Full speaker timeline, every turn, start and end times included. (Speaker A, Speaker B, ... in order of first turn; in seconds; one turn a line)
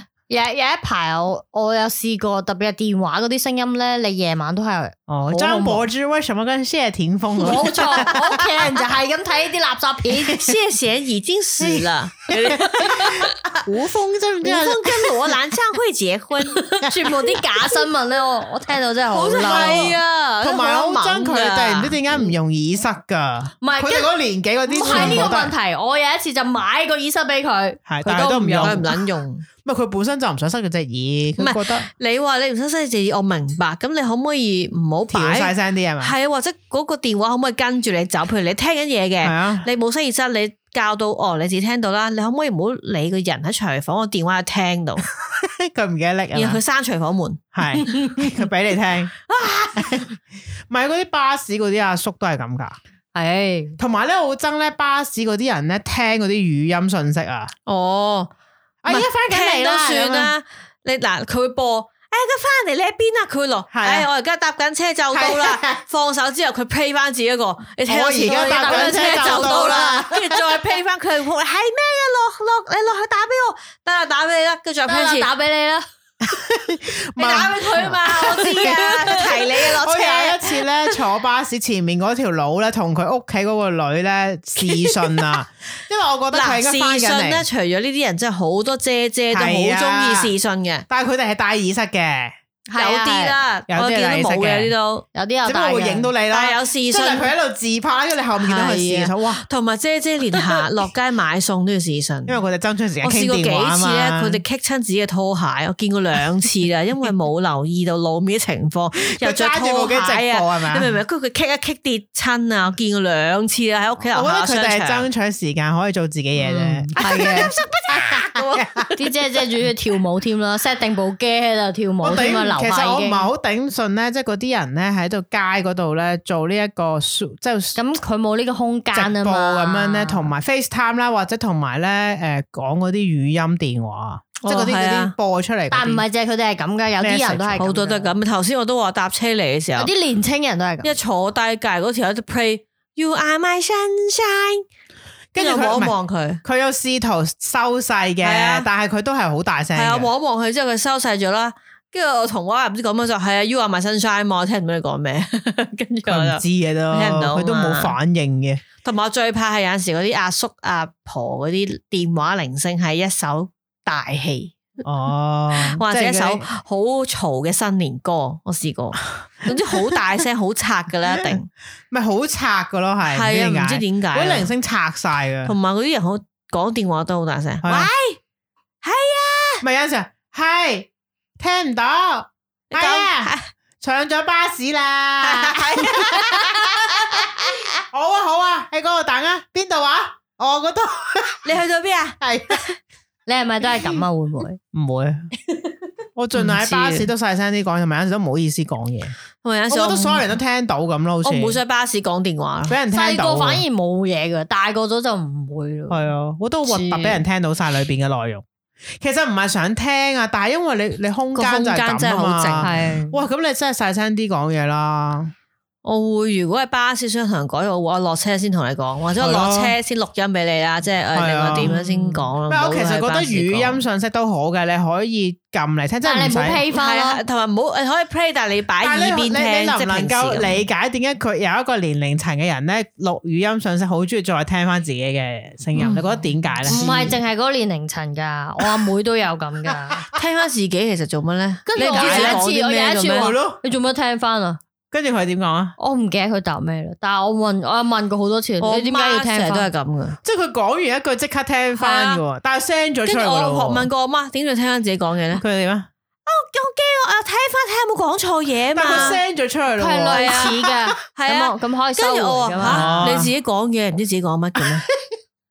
Speaker A: 0.3-5.8
Speaker B: 5.1-8.5
Speaker A: 7.4-10.4
Speaker C: 10.3-13.6
Speaker B: 11.6-15.3
Speaker C: 14.4-16.8
Speaker A: 16.7-19.9
Speaker C: 19.1-22.0
Speaker B: 19.3-25.5
Speaker A: 23.6-24.1
Speaker A: 24.7-28.9
Speaker C: 24.8-25.3
Speaker B: 27.9-28.9
Speaker C: 28.6-29.4
Speaker B: 29.6-31.9
Speaker C: 31.4-45.1
Speaker B: 35.1-36.1
Speaker B: 39.2-39.7
Speaker B: 45.2-46.6
Speaker C: 46.3-48.4
Speaker B: 47.5-49.2
Speaker C: 49.3-50.0
Speaker B: 49.8-50.1
Speaker B: 50.7-52.8
Speaker A: 53.1-53.8
Speaker B: 53.8-57.5
Speaker C: 57.6-58.3
Speaker B: 58.8-60.3
Speaker C: 58.9-75.3
Speaker B: 63.7-64.1
Speaker B: 65.1-65.8
Speaker B: 67.8-70.4
Speaker A: 68.3-70.0
Speaker A: 74.9-75.8
Speaker B: 76.2-87.4
Speaker C: 77.2-81.0
Speaker A: 77.7-79.2
Speaker C: 84.6-85.3
Speaker C: 86.3-90.8
Speaker B: 89.3-90.3
Speaker B: 90.9-92.3
Speaker A: 92.7-93.3
Speaker C: 92.8-95.0
Speaker B: 93.7-94.7
Speaker A: 95.1-96.1
Speaker B: 95.4-99.5
Speaker C: 96.3-97.3
Speaker C: 98.4-102.4
Speaker B: 102.3-104.4
Speaker C: 103.0-115.0
Speaker B: 109.1-110.9
Speaker B: 114.1-116.9
Speaker C: 116.5-119.2
Speaker A: 116.9-117.5
Speaker B: 117.9-118.9
Speaker A: 119.0-123.3
Speaker B: 122.0-127.8
Speaker A: 127.8-130.3
Speaker B: 128.9-136.0
Speaker C: 134.4-135.1
Speaker A: 135.7-138.1
Speaker B: 137.0-137.7
Speaker C: 137.6-139.9
Speaker A: 139.8-140.9
Speaker C: 140.8-144.6
Speaker B: 145.3-150.1
Speaker C: 145.3-146.4
Speaker C: 148.2-148.7
Speaker C: 149.7-157.9
Speaker B: 156.1-158.6
Speaker C: 158.8-164.6
Speaker B: 164.8-166.4
Speaker C: 165.6-171.5
Speaker B: 171.9-175.5
Speaker C: 173.1-174.5
Speaker C: 175.4-178.2
Speaker B: 177.6-177.9
Speaker C: 178.8-179.6
Speaker B: 179.6-187.3
Speaker C: 182.7-183.5
Speaker C: 185.2-187.6
Speaker B: 187.9-191.6
Speaker C: 191.4-192.8
Speaker B: 192.2-192.6
Speaker A: 193.3-194.6
Speaker B: 194.7-195.3
Speaker B: 196.2-199.1
Speaker C: 196.3-197.1
Speaker C: 199.4-200.3
Speaker B: 199.7-201.6
Speaker C: 201.2-202.8
Speaker B: 202.7-203.6
Speaker A: 202.9-206.0
Speaker B: 205.9-208.4
Speaker A: 206.7-207.2
Speaker B: 209.0-215.3
Speaker C: 211.3-212.7
Speaker A: 212.6-213.2
Speaker C: 215.8-223.8
Speaker B: 219.2-219.8
Speaker B: 221.1-221.8
Speaker A: 221.6-222.0
Speaker B: 222.4-226.6
Speaker A: 226.0-227.2
Speaker C: 226.7-230.6
Speaker B: 228.8-237.2
Speaker C: 235.7-236.1
Speaker C: 236.6-236.9
Speaker A: 236.7-240.1
Speaker C: 240.1-243.3
Speaker A: 241.7-244.6
Speaker B: 241.8-242.4
Speaker B: 243.1-243.6
Speaker B: 244.9-245.8
Speaker A: 245.8-249.7
Speaker C: 248.6-250.2
Speaker B: 250.2-253.9
Speaker C: 251.8-252.2
Speaker C: 253.0-255.4
Speaker B: 255.3-255.9
Speaker C: 256.2-259.2
Speaker B: 258.7-260.7
Speaker A: 258.9-259.2
Speaker A: 259.8-263.2
Speaker C: 260.1-260.6
Speaker C: 261.1-264.9
Speaker B: 262.6-263.3
Speaker B: 264.6-265.0